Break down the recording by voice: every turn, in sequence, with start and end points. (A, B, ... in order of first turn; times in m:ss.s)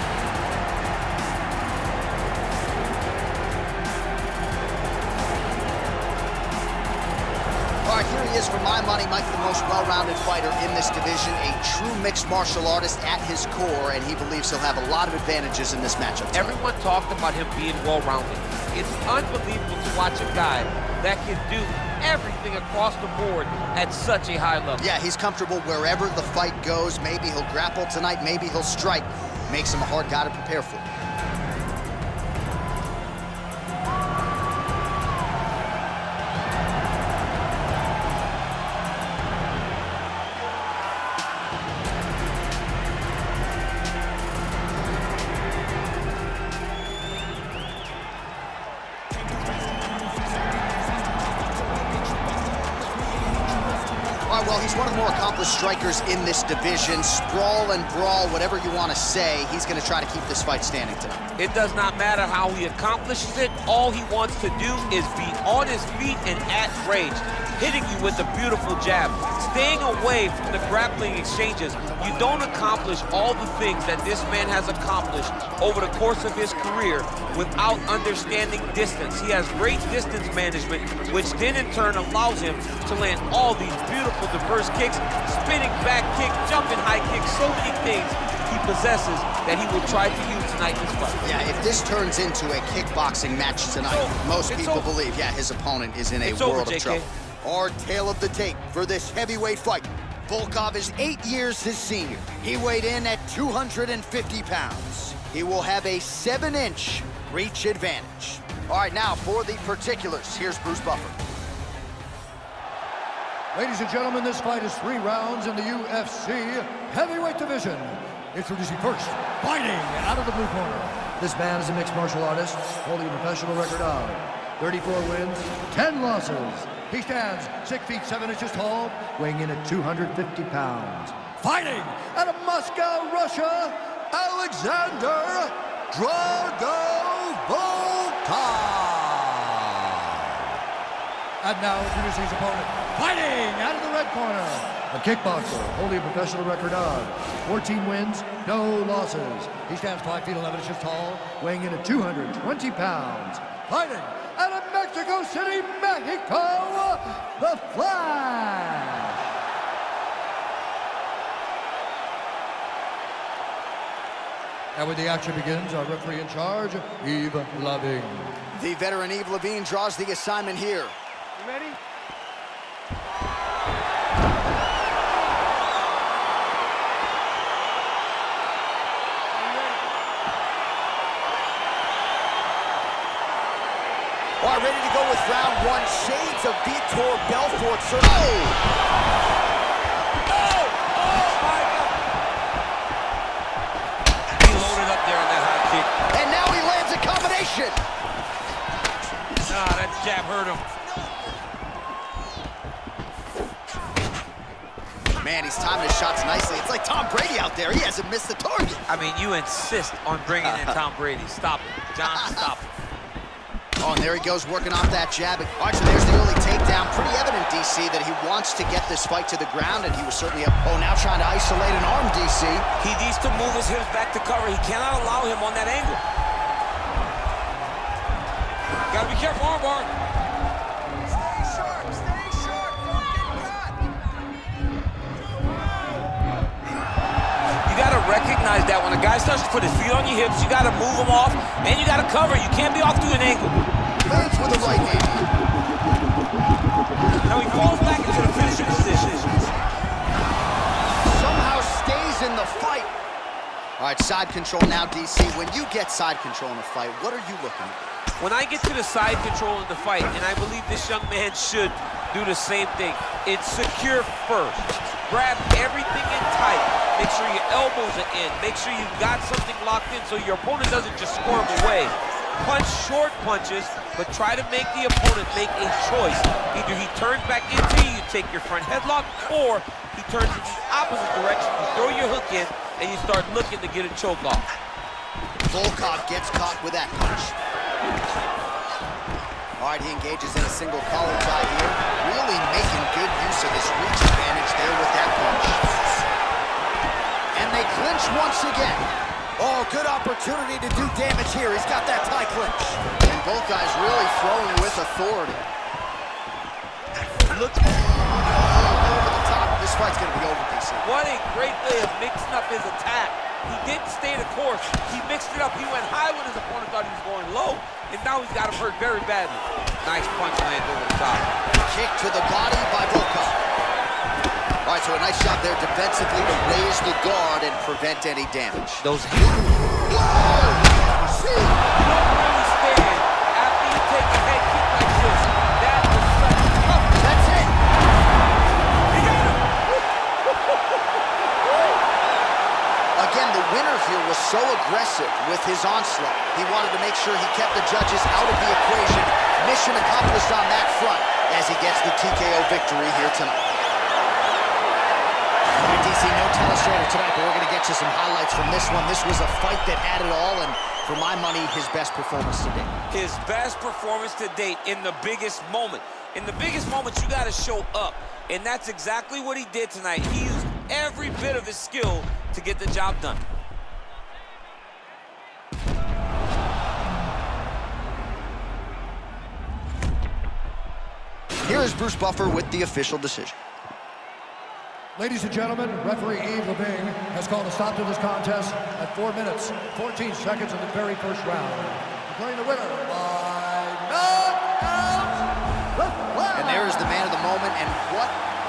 0:07.8-0:16.5 A
0:16.3-0:24.8 B
0:24.8-0:30.9 A
0:54.3-1:01.2 A
1:01.4-1:31.3 B
1:31.2-1:51.2 A
1:33.8-1:34.9 B
1:36.2-1:37.1 B
1:53.5-2:20.4 C
2:21.4-2:39.3 C
2:44.7-2:48.4 C
2:48.5-2:50.9 A
3:04.4-3:08.6 A
3:10.3-3:11.9 B
3:14.3-3:15.9 B
3:16.1-3:17.8 A
3:19.4-3:20.6 B
3:25.2-3:28.8 A
3:28.9-3:32.7 B
3:30.4-3:30.8 A
3:32.0-3:32.5 A
3:33.8-3:42.6 A
3:42.8-3:46.0 B
3:48.9-3:49.9 B
3:57.6-4:03.6 B
4:04.0-4:05.3 A
4:07.2-4:09.3 B
4:11.0-4:12.9 A
4:13.8-4:17.8 A
4:18.2-4:44.4 B
4:45.5-4:47.3 A
4:49.6-4:55.7 A
4:57.3-4:58.9 A
4:59.4-5:05.5 A
5:07.3-5:10.9 A
5:10.8-5:21.3 B
5:21.6-5:23.3 A
5:24.6-5:28.8 A
5:28.8-5:29.5 B
5:29.4-5:31.6 A
5:31.7-5:37.1 B
5:37.0-5:37.6 A
5:38.9-5:39.4 B
5:43.0-5:53.4 A
5:55.6-6:02.7 A
6:02.9-6:13.2 B
6:21.4-6:23.3 A
6:25.0-6:36.8 C
6:36.3-6:38.1 A